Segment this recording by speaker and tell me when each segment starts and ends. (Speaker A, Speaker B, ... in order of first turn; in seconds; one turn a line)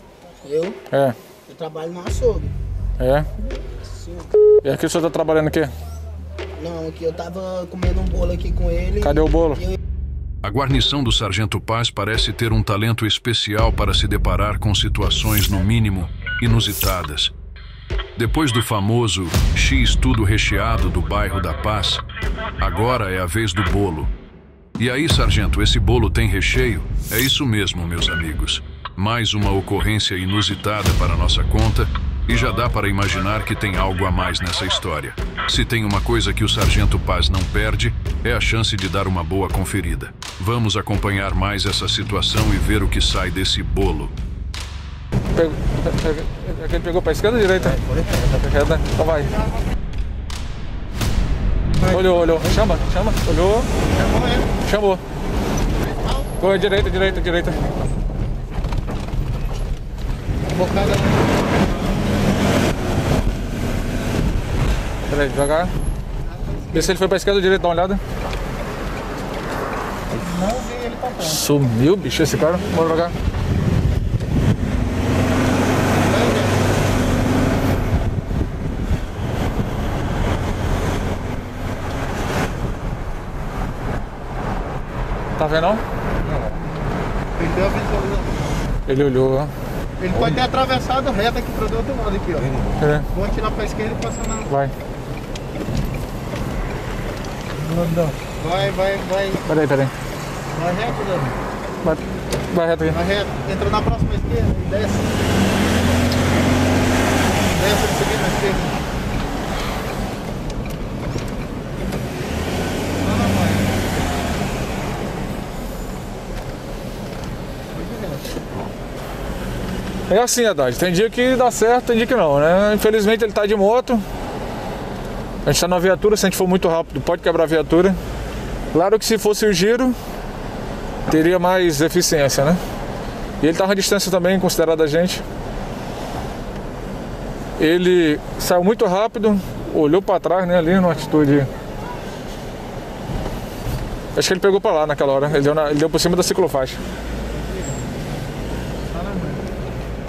Speaker A: 0.4-0.8
Speaker B: 0.9-1.2
Speaker A: 1.5-2.5
Speaker B: 3.0-3.3
Speaker A: 3.7-4.3
Speaker B: 4.6-5.7
Speaker A: 6.6-9.8
Speaker B: 9.0-9.6
Speaker C: 10.4-17.3
Speaker C: 18.2-22.0
Speaker C: 22.6-24.1
Speaker C: 24.8-44.1
Speaker B: 45.4-49.3
Speaker B: 51.9-53.7
Speaker D: 53.9-54.5
Speaker B: 54.6-55.0
Speaker D: 55.8-57.1
Speaker B: 56.4-57.6
Speaker D: 60.5-62.0
Speaker B: 65.1-65.7
Speaker D: 66.2-67.0
Speaker B: 66.7-68.0
Speaker D: 70.1-71.5
Speaker B: 71.2-73.2
Speaker D: 75.9-76.5
Speaker B: 85.4-85.8
Speaker D: 87.4-88.4
Speaker B: 88.9-89.5
Speaker D: 90.0-92.5
Speaker B: 92.8-93.1
Speaker D: 93.1-94.5
Speaker D: 98.3-99.4
Speaker B: 99.5-99.9
Speaker D: 100.5-101.4
Speaker B: 101.8-103.0
Speaker D: 102.9-106.0
Speaker D: 107.4-108.8
Speaker D: 113.0-113.8
Speaker D: 117.7-118.5
Speaker B: 120.1-124.0
Speaker B: 125.5-128.0
Speaker B: 128.7-129.9
Speaker B: 131.1-132.6
Speaker B: 133.4-135.2
Speaker B: 137.6-141.5
Speaker B: 144.2-146.8
Speaker D: 147.3-147.8
Speaker D: 148.9-149.4